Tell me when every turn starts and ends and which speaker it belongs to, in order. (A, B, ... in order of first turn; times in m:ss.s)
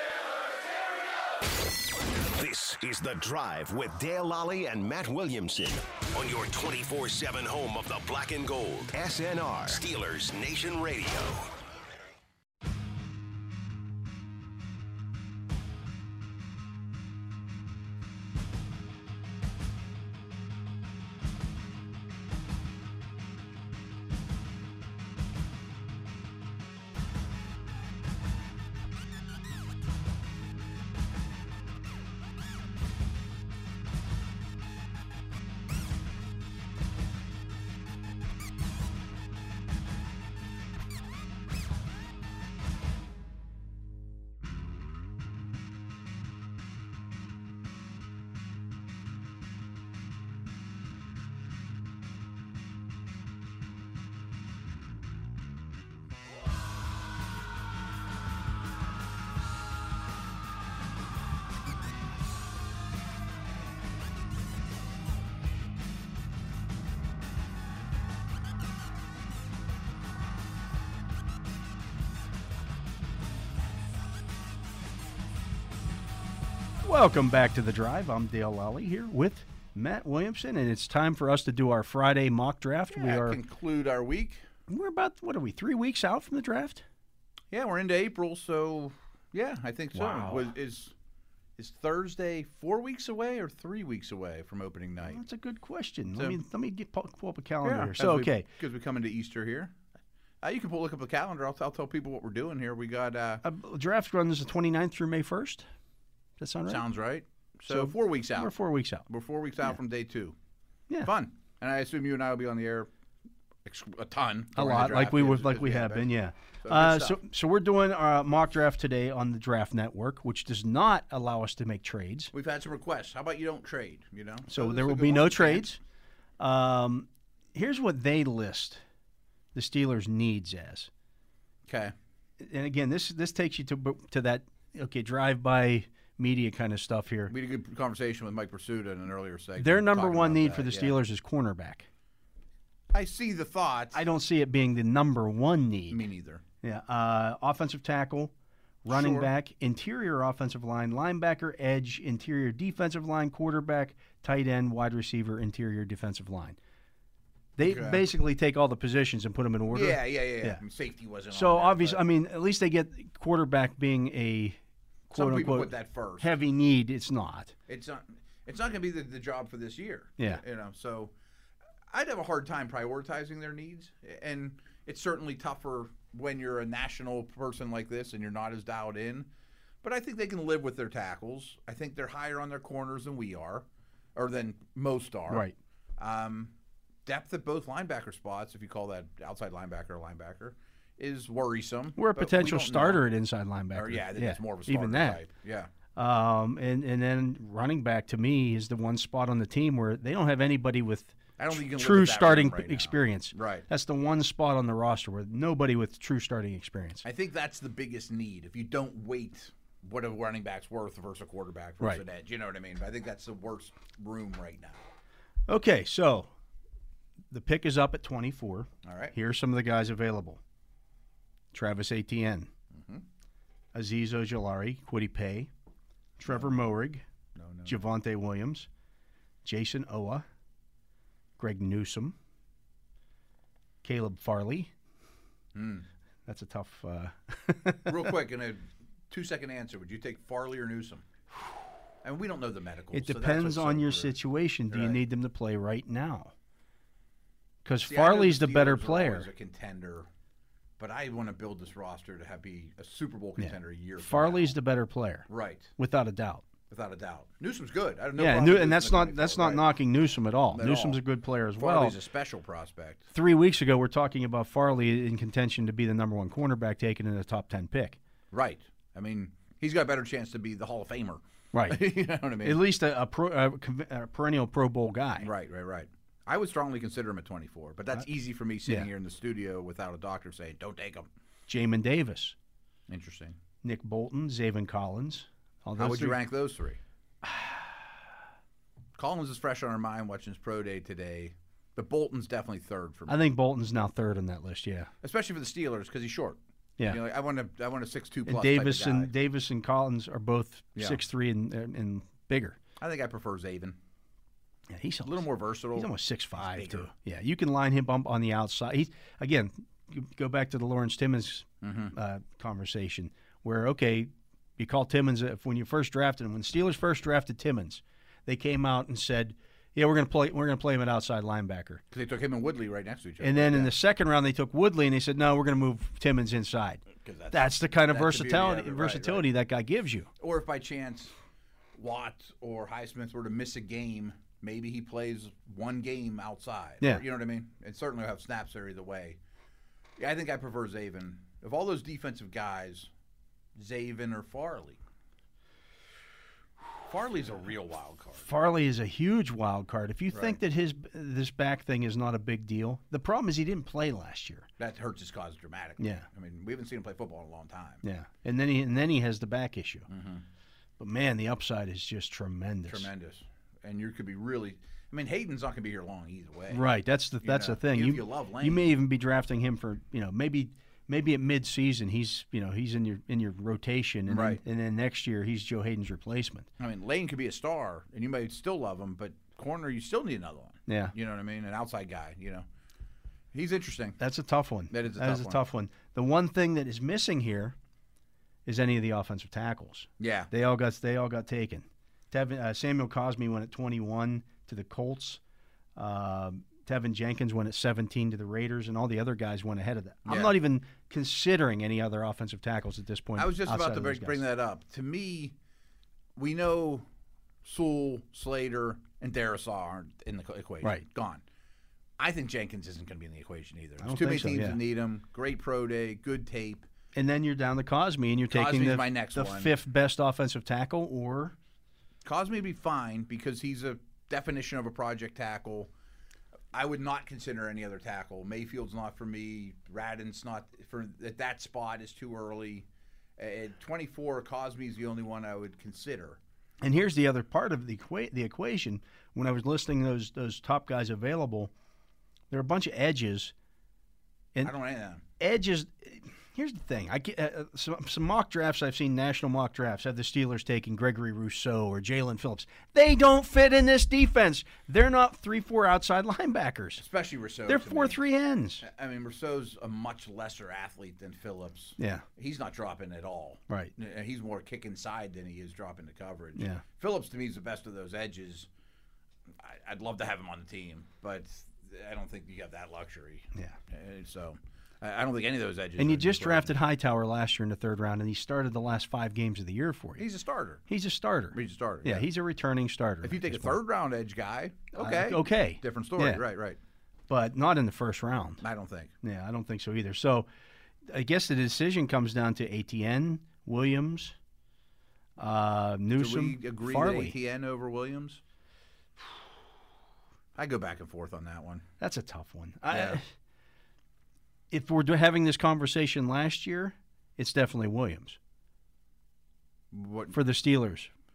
0:02.2-0:11.5 A
1:16.8-1:23.4 B
1:22.9-1:24.4 C
1:24.7-1:26.8 B
1:27.5-1:30.9 C
1:29.9-1:30.5 B
1:31.6-1:35.2 C
1:35.0-1:38.5 B
1:37.6-1:39.8 C
1:40.4-1:43.4 C
1:43.4-1:45.6 B
1:46.4-1:46.8 B
1:46.7-1:48.5 C
1:47.7-1:49.1 B
1:49.1-1:50.4 C
1:51.0-1:52.9 C
1:53.6-1:56.1 C
1:54.5-2:02.3 B
1:56.6-1:57.2 C
2:02.3-2:05.7 C
2:04.5-2:05.8 B
2:06.4-2:08.8 B
2:09.5-2:10.9 B
2:11.7-2:11.9 C
2:12.4-2:17.3 B
2:17.3-2:21.0 C
2:19.6-2:21.9 B
2:22.9-2:24.0 C
2:23.9-2:26.0 B
2:25.9-2:26.4 C
2:26.6-2:28.3 B
2:28.8-2:36.6 B
2:28.9-2:29.3 C
2:37.6-2:40.6 B
2:37.6-2:38.0 C
2:39.7-2:42.0 C
2:41.3-2:44.6 B
2:45.1-2:47.5 B
2:45.1-2:46.3 C
2:47.7-2:51.1 C
2:51.9-2:59.3 C
2:59.8-3:05.5 C
3:05.3-3:05.5 B
3:06.0-3:06.5 C
3:07.0-3:13.0 C
3:12.0-3:15.2 B
3:13.7-3:15.7 C
3:16.0-3:27.0 B
3:21.4-3:23.6 C
3:27.0-3:34.8 C
3:35.5-3:36.3 B
3:37.3-3:40.4 B
3:38.8-3:39.1 C
3:41.5-3:42.5 B
3:42.7-3:43.0 C
3:43.7-3:45.5 B
3:46.2-3:47.0 B
3:47.3-3:47.8 C
3:47.6-3:48.7 B
3:49.4-3:50.2 B
3:51.4-3:52.2 B
3:53.8-3:54.7 B
3:55.5-3:55.8 C
3:56.2-3:58.1 B
3:57.8-4:01.0 C
4:02.0-4:04.1 C
4:02.9-4:06.3 B
4:04.7-4:05.0 C
4:07.6-4:09.3 B
4:07.8-4:10.1 C
4:10.8-4:14.5 C
4:13.4-4:16.4 B
4:15.3-4:15.7 C
4:16.7-4:19.7 C
4:18.2-4:21.9 B
4:20.5-4:21.0 C
4:21.6-4:23.1 C
4:23.1-4:28.0 B
4:28.3-4:32.6 C
4:31.5-4:31.8 B
4:32.4-4:35.3 B
4:35.2-4:41.1 C
4:41.5-4:42.4 B
4:42.9-4:43.4 C
4:43.6-4:46.2 B
4:45.8-4:46.8 C
4:47.2-4:47.7 B
4:49.0-4:53.2 C
4:53.1-4:54.9 B
4:55.0-4:59.1 C
4:58.2-5:02.6 B
5:02.8-5:03.8 C
5:04.7-5:21.8 B
5:05.0-5:06.9 C
5:11.6-5:11.9 C
5:21.9-5:23.7 C
5:23.2-5:30.1 B
5:27.0-5:29.3 C
5:30.2-5:31.1 C
5:31.7-5:39.2 C
5:40.0-5:42.9 C
5:43.6-5:44.8 C
5:46.8-5:48.3 C
5:48.2-5:54.5 B
5:50.1-5:50.4 C
5:54.6-5:57.8 C
5:55.8-5:56.1 B
5:57.8-5:59.9 B
5:59.9-6:00.2 C
6:00.8-6:02.9 B
6:02.7-6:06.6 C
6:06.5-6:16.5 B
6:07.2-6:08.7 C
6:14.1-6:14.4 C
6:16.6-6:22.4 C
6:20.7-6:20.9 B
6:23.3-6:24.0 C
6:24.0-6:27.6 B
6:24.7-6:25.4 C
6:28.4-6:35.2 B
6:30.0-6:30.3 C
6:35.8-6:44.2 B
6:40.0-6:40.4 C
6:43.2-6:45.3 C
6:46.2-6:46.8 C
6:47.4-6:51.2 C
6:52.0-6:56.7 C
6:53.8-6:54.6 B
6:56.9-7:01.3 B
6:58.3-6:59.5 C
7:02.0-7:05.7 C
7:06.5-7:16.2 C
7:16.6-7:21.5 B
7:22.3-7:23.3 B
7:24.4-7:25.0 C
7:25.2-7:36.8 B
7:36.8-7:38.0 C
7:37.5-7:38.6 B
7:38.6-7:48.5 C
7:41.8-7:42.0 B
7:46.4-7:46.6 B
7:49.3-7:56.6 C
7:55.8-8:00.0 B
8:00.0-8:00.6 C
8:00.7-8:03.6 B
8:01.3-8:02.1 C
8:03.0-8:06.6 C
8:04.8-8:06.2 B
8:07.1-8:08.4 B
8:08.4-8:08.9 C
8:09.0-8:10.3 B
8:10.8-8:14.2 B
8:15.2-8:17.2 B
8:16.0-8:18.2 C
8:20.3-8:21.6 C
8:21.8-8:23.1 B
8:22.7-8:23.0 C
8:24.5-8:28.2 B
8:29.7-8:30.2 C
8:30.1-8:30.9 B